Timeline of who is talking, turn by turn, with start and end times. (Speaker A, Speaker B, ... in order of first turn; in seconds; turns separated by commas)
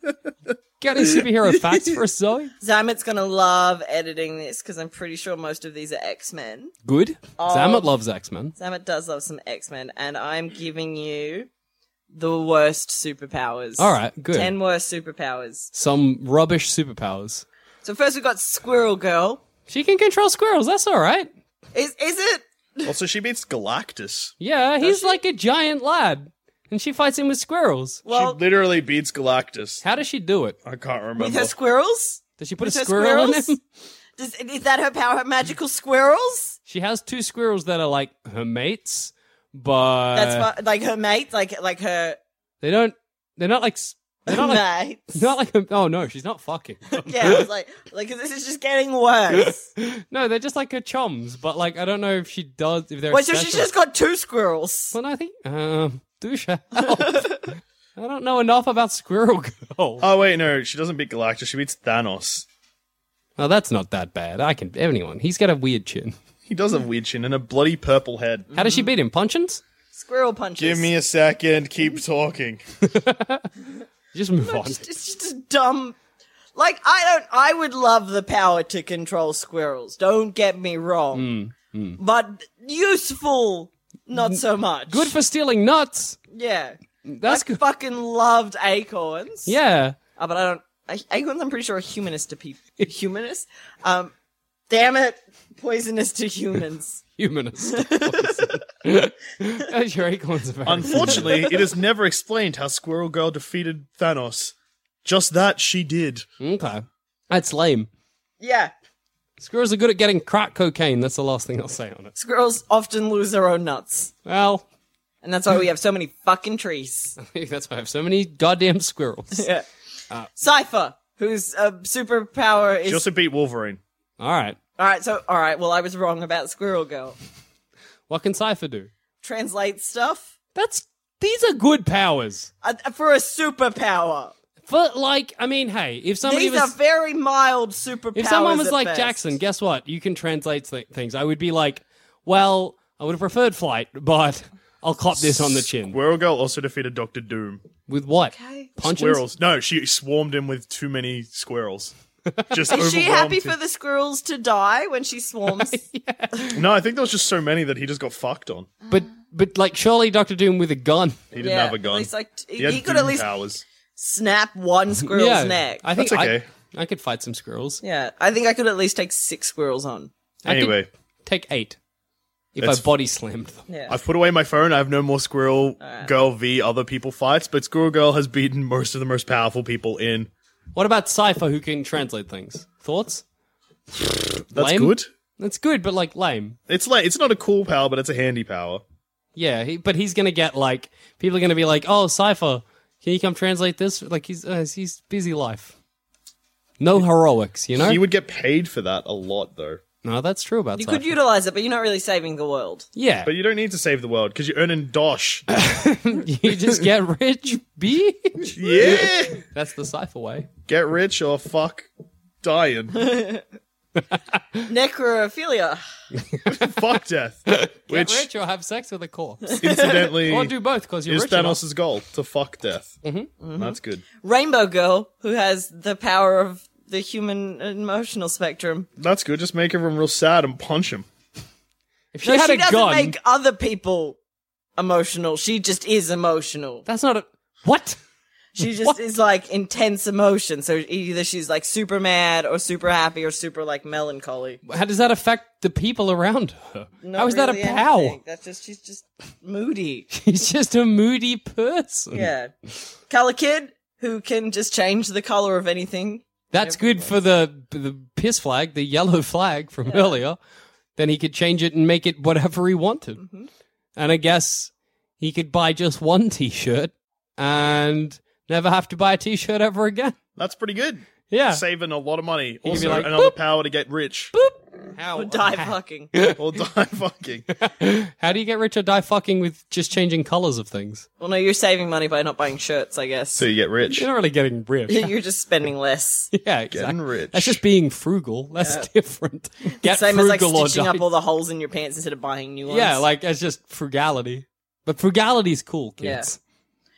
Speaker A: 0.8-2.5, Speaker B: 2.6-6.7, Speaker A: 6.8-8.5, Speaker B: 7.4-7.9, Speaker B: 8.6-11.5, Speaker B: 12.1-15.7, Speaker A: 13.8-14.5, Speaker A: 15.7-17.4, Speaker B: 17.8-19.4, Speaker A: 19.7-21.3, Speaker B: 21.7-22.9, Speaker C: 22.9-24.3, Speaker A: 24.4-28.0, Speaker B: 24.8-25.2, Speaker B: 28.1-28.4, Speaker C: 28.1-29.8, Speaker A: 29.8-30.6, Speaker C: 30.6-31.5, Speaker B: 31.1-33.5, Speaker A: 32.4-33.6, Speaker B: 34.2-36.6, Speaker A: 36.7-40.5, Speaker B: 40.1-42.2, Speaker A: 42.6-47.4, Speaker B: 44.3-45.3, Speaker B: 47.0-49.7, Speaker A: 49.8-53.7, Speaker B: 53.1-54.9, Speaker A: 54.9-57.4, Speaker B: 56.8-57.4, Speaker A: 58.0-60.1, Speaker C: 60.0-62.4, Speaker A: 63.4-66.1, Speaker C: 66.5-68.5, Speaker A: 68.5-69.6, Speaker B: 68.5-68.8, Speaker B: 69.9-70.9, Speaker C: 70.6-72.6, Speaker A: 72.8-73.5, Speaker A: 74.1-74.9, Speaker B: 74.4-76.0, Speaker B: 76.5-81.3, Speaker A: 81.1-82.0, Speaker B: 82.0-85.1, Speaker A: 84.2-86.2, Speaker B: 86.3-89.5, Speaker A: 87.0-87.6, Speaker A: 89.5-90.0, Speaker B: 90.2-94.1, Speaker B: 94.7-97.0, Speaker A: 97.2-101.4, Speaker B: 97.7-98.5, Speaker C: 100.7-104.5, Speaker B: 100.9-101.5, Speaker C: 105.0-106.2, Speaker A: 106.4-107.9, Speaker B: 108.4-108.7, Speaker A: 109.4-112.1, Speaker B: 112.2-114.1, Speaker A: 114.2-114.6, Speaker B: 115.2-117.2, Speaker A: 117.2-119.5, Speaker B: 119.3-119.7, Speaker B: 120.4-123.0, Speaker C: 122.8-123.8, Speaker A: 124.2-124.6, Speaker B: 124.8-127.2, Speaker A: 128.1-128.9, Speaker B: 129.2-130.3, Speaker A: 130.5-132.5, Speaker B: 132.6-134.3, Speaker A: 134.6-136.7, Speaker B: 136.2-139.3, Speaker A: 138.1-146.0, Speaker C: 145.2-147.6, Speaker A: 147.9-149.2, Speaker B: 148.3-148.7, Speaker C: 148.8-151.9, Speaker A: 152.3-152.7, Speaker C: 152.5-153.5, Speaker B: 152.7-155.8, Speaker A: 155.5-156.6, Speaker C: 156.5-158.7, Speaker A: 158.9-161.2, Speaker C: 161.3-163.6, Speaker B: 161.4-163.3, Speaker B: 164.0-165.8, Speaker A: 165.0-167.8, Speaker C: 165.9-166.4, Speaker B: 167.8-170.1, Speaker A: 170.4-171.8, Speaker C: 170.5-170.9, Speaker A: 172.6-173.6, Speaker C: 172.6-172.8, Speaker B: 173.7-174.0, Speaker C: 173.9-180.3, Speaker B: 175.8-176.1, Speaker A: 180.7-183.2, Speaker C: 184.5-185.1, Speaker A: 184.5-186.6, Speaker C: 186.7-188.8, Speaker A: 189.3-195.7, Speaker A: 196.8-198.0, Speaker C: 197.8-199.8, Speaker A: 200.0-201.1, Speaker B: 200.8-202.9, Speaker A: 202.9-203.3, Speaker C: 203.2-205.4, Speaker A: 205.5-210.5, Speaker C: 208.5-209.4, Speaker C: 210.7-211.9, Speaker C: 212.4-213.0, Speaker B: 212.9-213.4, Speaker B: 214.7-215.8, Speaker A: 216.2-216.8, Speaker C: 216.5-218.3, Speaker A: 217.5-219.6, Speaker B: 219.5-220.2, Speaker C: 219.6-220.5, Speaker A: 220.3-221.6, Speaker C: 221.1-223.0, Speaker A: 223.0-223.3, Speaker B: 223.4-228.9, Speaker C: 223.6-224.0, Speaker C: 229.0-231.0, Speaker A: 232.1-233.2, Speaker B: 232.2-234.2, Speaker B: 234.8-236.8, Speaker A: 236.8-238.0, Speaker B: 238.6-244.6, Speaker A: 244.7-248.2, Speaker B: 247.0-250.1, Speaker A: 250.1-252.3, Speaker B: 252.1-252.5, Speaker B: 253.1-257.1, Speaker A: 256.5-260.4, Speaker B: 259.9-260.1, Speaker A: 260.9-263.2, Speaker B: 263.2-263.5, Speaker A: 263.9-270.1, Speaker C: 270.4-274.3, Speaker A: 271.3-271.6, Speaker A: 272.6-273.4, Speaker A: 274.3-276.4, Speaker B: 275.1-276.1, Speaker C: 276.4-277.5, Speaker A: 277.6-281.1, Speaker B: 281.2-283.4, Speaker C: 283.3-284.1, Speaker A: 283.9-285.1, Speaker B: 284.9-286.3, Speaker A: 286.3-291.1, Speaker C: 286.7-287.6, Speaker B: 288.6-288.9, Speaker B: 289.8-293.0, Speaker A: 292.7-296.4, Speaker B: 296.0-296.3